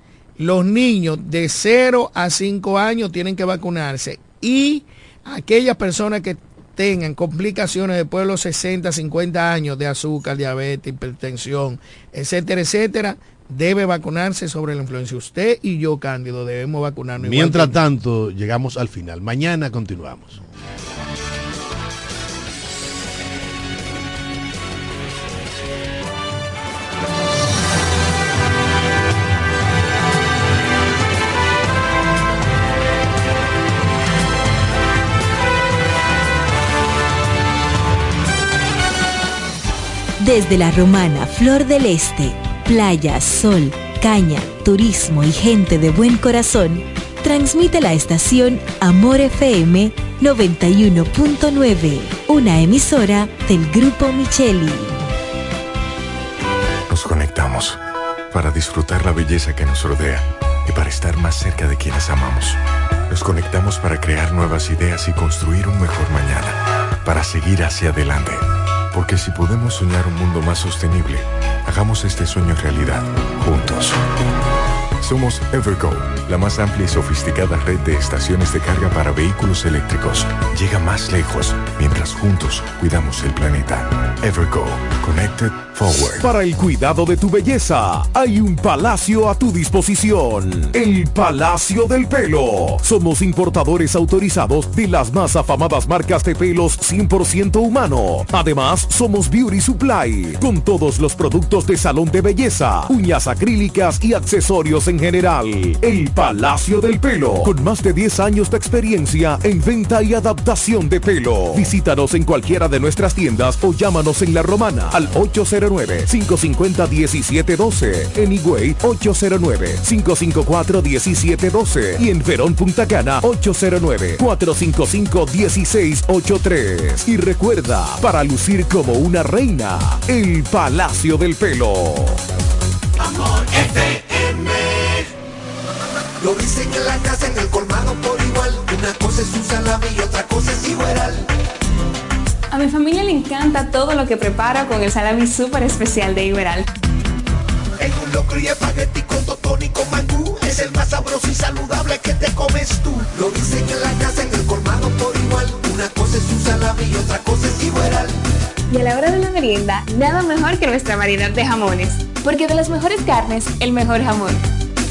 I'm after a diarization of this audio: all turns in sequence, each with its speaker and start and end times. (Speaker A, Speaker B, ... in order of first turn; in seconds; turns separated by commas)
Speaker A: 0.4-17.8, Speaker B: 17.2-20.4, Speaker C: 40.2-54.9, Speaker D: 56.9-57.8, Speaker D: 58.3-74.0, Speaker D: 75.0-86.3, Speaker E: 86.1-132.2, Speaker F: 133.0-135.0, Speaker F: 136.2-141.2, Speaker G: 142.5-146.7, Speaker F: 147.8-158.1, Speaker G: 158.7-164.4